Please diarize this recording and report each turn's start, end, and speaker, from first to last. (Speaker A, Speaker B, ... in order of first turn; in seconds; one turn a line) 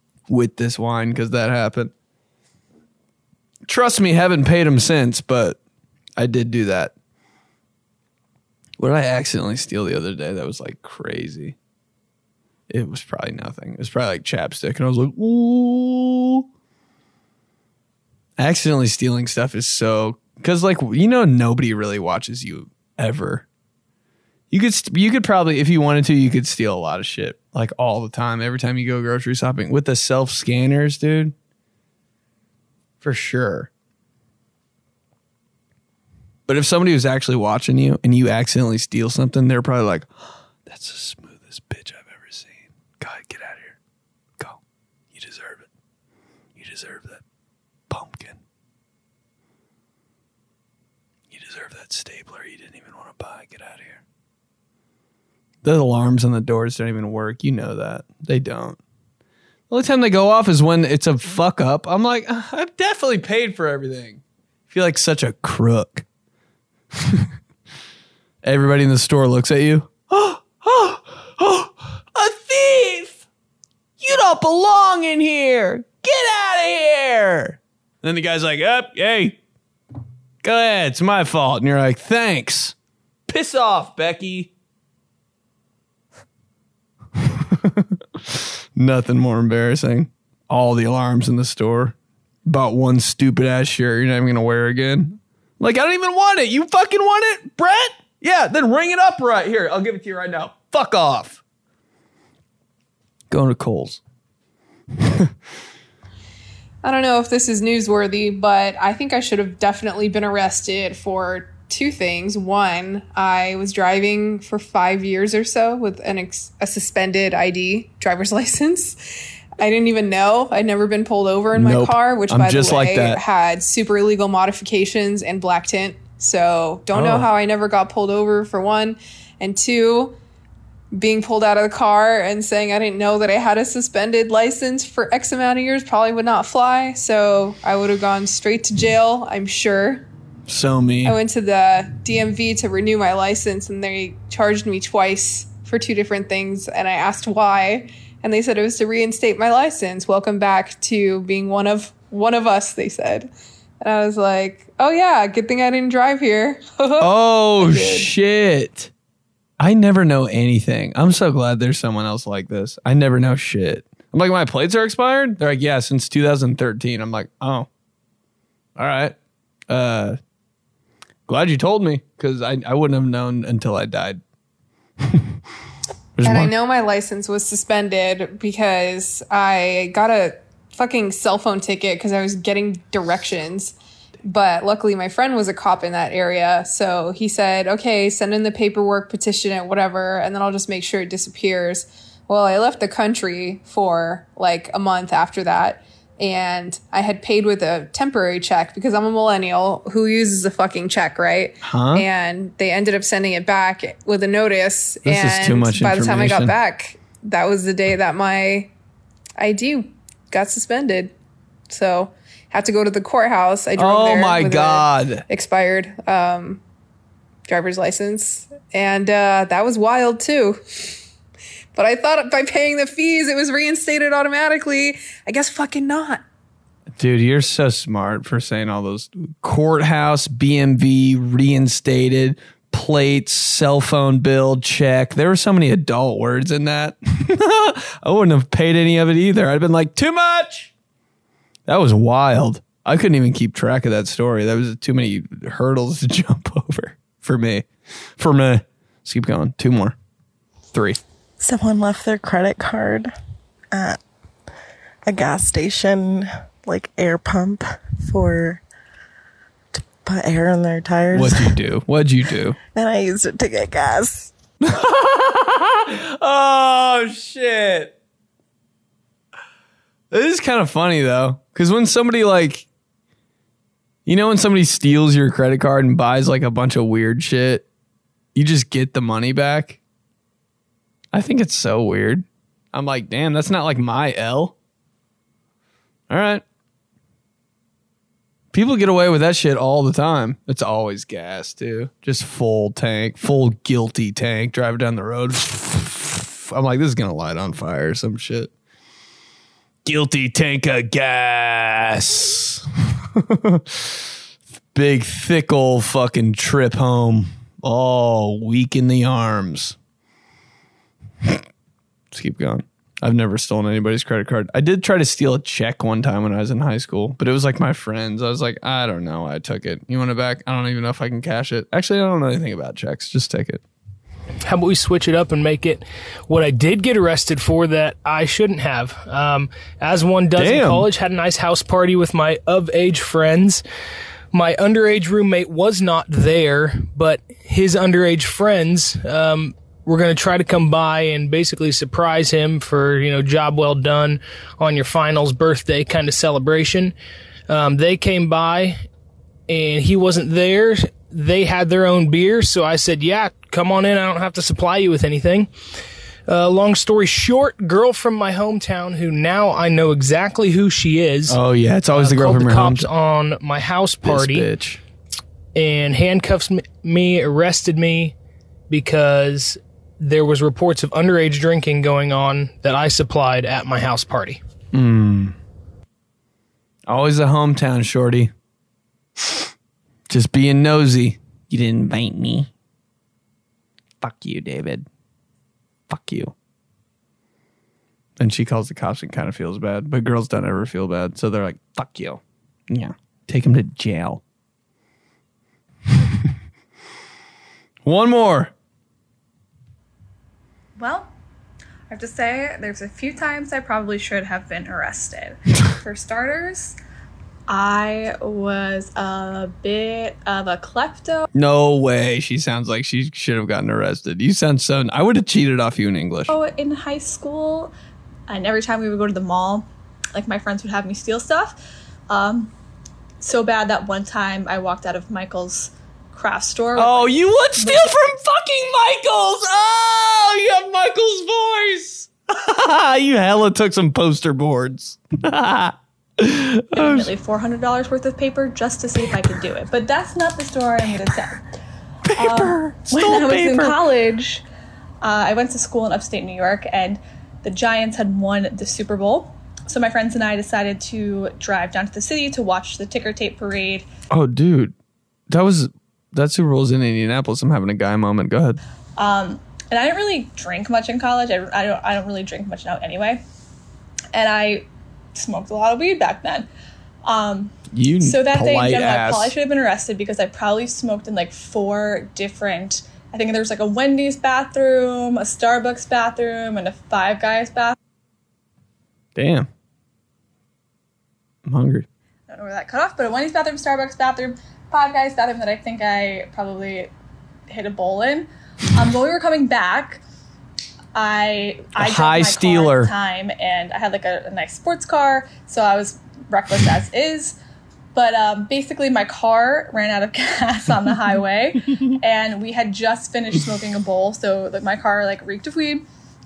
Speaker A: 0.3-1.9
Speaker A: 3.7-5.6
Speaker A: 6.2-6.9
Speaker A: 8.8-11.6
Speaker A: 12.7-16.4
Speaker A: 18.4-23.4
Speaker A: 24.5-31.3
Speaker A: 33.0-33.7
Speaker A: 36.5-40.1
Speaker A: 40.6-43.8
Speaker A: 45.1-45.7
Speaker A: 46.6-47.2
Speaker A: 47.9-48.4
Speaker A: 51.3-54.0
Speaker A: 55.6-58.8
Speaker A: 59.7-66.0
Speaker A: 67.0-67.3
Speaker A: 68.4-73.2
Speaker A: 74.0-79.4
Speaker A: 80.4-82.8
Speaker A: 83.3-84.5
Speaker A: 87.2-92.0
Speaker A: 92.5-101.4
Speaker A: 103.3-104.0
Speaker A: 105.0-105.3
Speaker B: 106.8-119.0
Speaker B: 119.6-130.2
Speaker A: 121.5-123.2
Speaker A: 126.9-127.3
Speaker B: 130.9-140.1
Speaker A: 140.5-141.2
Speaker B: 141.1-158.1
Speaker A: 157.0-158.9
Speaker A: 159.6-167.7
Speaker A: 168.8-169.2
Speaker A: 169.7-170.2
Speaker A: 171.3-174.2
Speaker A: 175.0-175.4
Speaker A: 176.2-176.5
Speaker B: 176.2-208.7
Speaker A: 201.6-202.1
Speaker A: 205.1-206.5
Speaker B: 209.4-211.1
Speaker B: 211.7-216.6
Speaker A: 213.8-215.2
Speaker B: 217.5-220.6
Speaker B: 221.7-226.2
Speaker A: 227.0-240.7
Speaker A: 241.7-247.7
Speaker A: 248.2-250.0
Speaker A: 250.7-251.0
Speaker C: 251.4-253.1
Speaker C: 253.7-254.0
Speaker C: 255.1-258.6
Speaker C: 259.8-261.6
Speaker A: 261.1-262.6
Speaker C: 262.8-264.3
Speaker A: 264.6-267.9
Speaker A: 270.1-272.7
Speaker A: 274.1-277.7
Speaker A: 278.4-279.8
Speaker A: 281.1-284.6
Speaker A: 286.1-286.4
Speaker A: 288.5-298.5
Speaker A: 299.9-302.6
Speaker A: 303.2-304.0
Speaker A: 304.7-309.8
Speaker A: 312.1-323.6
Speaker D: 324.5-333.6
Speaker A: 330.4-330.9
Speaker D: 334.3-346.9
Speaker D: 347.5-348.8
Speaker D: 349.5-355.5
Speaker D: 356.3-364.5
Speaker A: 361.3-362.9
Speaker A: 364.0-364.8
Speaker D: 365.6-368.1
Speaker D: 368.7-374.4
Speaker A: 374.7-375.4
Speaker A: 376.9-378.3
Speaker A: 379.2-379.5
Speaker A: 380.1-382.5
Speaker A: 384.0-384.9
Speaker A: 385.9-386.3
Speaker A: 388.2-394.2
Speaker A: 397.9-398.5
Speaker E: 400.8-401.1
Speaker E: 401.9-406.8
Speaker E: 407.5-411.3
Speaker A: 411.3-416.3
Speaker E: 416.3-417.7
Speaker E: 418.3-421.6
Speaker E: 422.1-422.5
Speaker E: 423.2-427.9
Speaker A: 426.8-437.1
Speaker E: 436.8-441.4
Speaker A: 442.1-443.8
Speaker E: 442.2-444.4
Speaker E: 445.0-453.9
Speaker A: 454.1-454.8
Speaker A: 455.3-458.6
Speaker E: 459.0-463.2
Speaker E: 464.1-466.5
Speaker E: 467.1-477.8
Speaker A: 467.7-469.3
Speaker A: 479.1-479.5
Speaker A: 481.5-481.9
Speaker E: 482.3-486.9
Speaker E: 487.5-490.0
Speaker E: 490.9-497.4
Speaker A: 491.8-492.9
Speaker E: 497.9-505.8